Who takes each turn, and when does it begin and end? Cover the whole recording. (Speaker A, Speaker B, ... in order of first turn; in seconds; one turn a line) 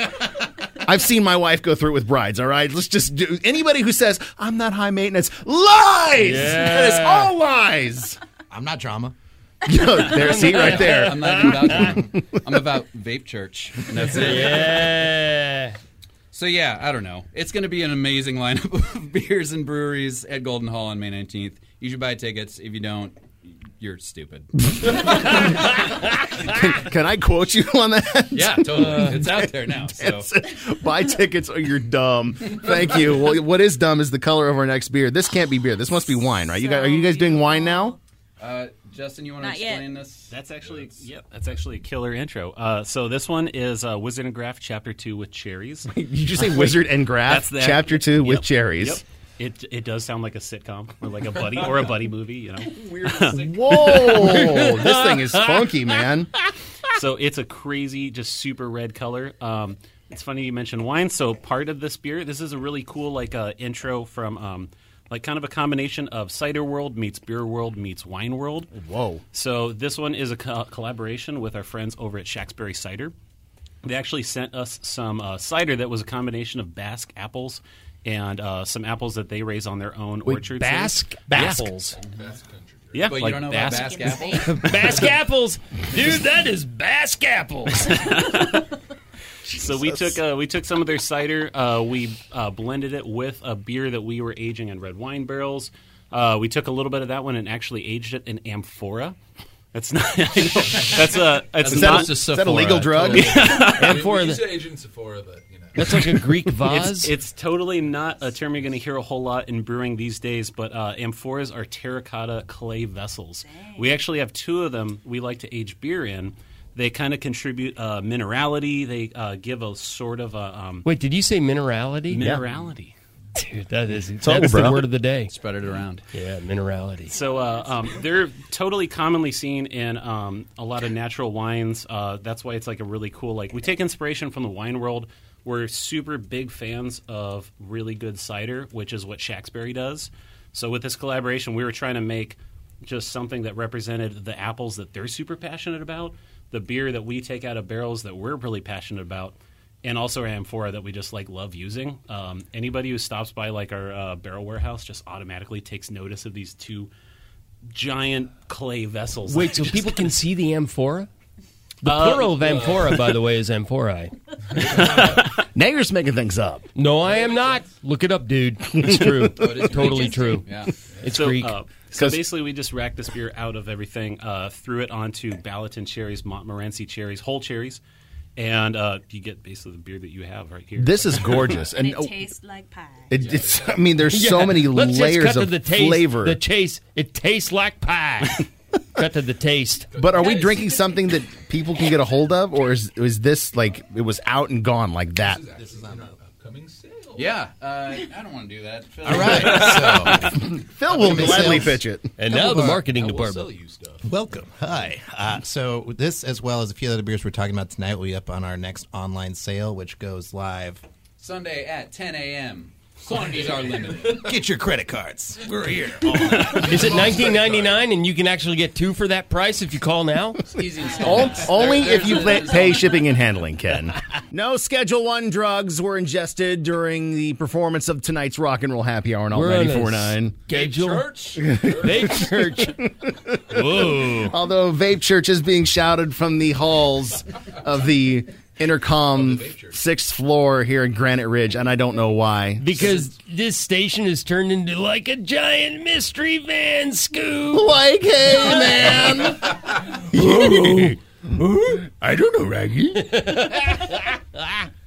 Speaker A: 0.8-8.2
Speaker B: 6.2-7.3
Speaker C: 8.5-9.1
Speaker A: 9.6-12.4
Speaker B: 10.1-12.0
Speaker D: 10.3-14.9
Speaker B: 14.1-15.8
Speaker D: 16.3-25.7
Speaker A: 24.8-25.8
Speaker A: 26.4-38.0
Speaker D: 28.3-30.3
Speaker B: 28.8-29.1
Speaker E: 36.5-38.0
Speaker D: 38.4-40.3
Speaker E: 39.4-39.9
Speaker F: 40.3-54.3
Speaker A: 45.9-49.0
Speaker A: 52.8-56.3
Speaker B: 53.8-55.9
Speaker F: 56.9-68.7
Speaker A: 68.7-69.2
Speaker F: 69.3-73.1
Speaker F: 73.8-81.9
Speaker B: 80.2-82.0
Speaker A: 81.3-81.7
Speaker G: 82.0-83.2
Speaker F: 82.9-84.3
Speaker D: 83.0-84.8
Speaker E: 83.6-84.5
Speaker B: 84.4-88.0
Speaker F: 87.9-88.7
Speaker A: 89.5-90.1
Speaker F: 89.5-99.2
Speaker F: 99.7-102.2
Speaker D: 101.6-103.6
Speaker A: 101.6-103.5
Speaker G: 103.1-106.2
Speaker F: 103.2-103.8
Speaker B: 103.6-104.5
Speaker B: 105.7-107.1
Speaker F: 106.6-120.8
Speaker E: 113.5-113.9
Speaker B: 120.8-122.3
Speaker F: 122.1-122.9
Speaker A: 122.2-122.4
Speaker B: 123.3-125.3
Speaker A: 124.2-124.8
Speaker D: 125.3-126.0
Speaker B: 126.1-127.1
Speaker F: 127.1-156.9
Speaker F: 157.7-160.1
Speaker B: 159.3-161.1
Speaker B: 161.8-164.9
Speaker F: 161.8-162.8
Speaker G: 162.4-162.8
Speaker G: 164.5-165.3
Speaker A: 164.7-166.7
Speaker B: 166.8-170.5
Speaker G: 167.0-167.6
Speaker A: 168.7-169.5
Speaker D: 169.3-170.8
Speaker G: 170.9-171.2
Speaker B: 171.0-171.6
Speaker F: 171.1-177.8
Speaker A: 171.9-172.2
Speaker F: 178.3-181.5
Speaker A: 180.8-182.3
Speaker E: 181.6-183.2
Speaker A: 183.1-186.4
Speaker G: 183.1-183.9
Speaker B: 184.1-189.9
Speaker G: 189.9-190.7
Speaker A: 190.0-195.4
Speaker G: 195.2-197.3
Speaker C: 195.6-196.2
Speaker D: 197.1-200.1
Speaker C: 199.0-202.8
Speaker G: 199.6-200.1
Speaker A: 200.3-202.1
Speaker G: 201.0-201.4
Speaker B: 202.2-203.5
Speaker G: 202.3-204.1
Speaker C: 204.0-210.8
Speaker D: 211.2-214.3
Speaker G: 213.1-214.3
Speaker C: 214.1-215.6
Speaker G: 215.5-217.8
Speaker C: 216.2-216.5
Speaker B: 216.5-220.4
Speaker D: 220.5-223.0
Speaker A: 220.9-230.4
Speaker B: 229.3-232.9
Speaker G: 230.5-232.2
Speaker A: 231.4-243.0
Speaker B: 233.5-234.3
Speaker G: 239.1-239.8
Speaker B: 242.6-247.7
Speaker A: 247.5-253.7
Speaker B: 248.5-249.2
Speaker B: 250.1-250.9
Speaker B: 253.0-254.6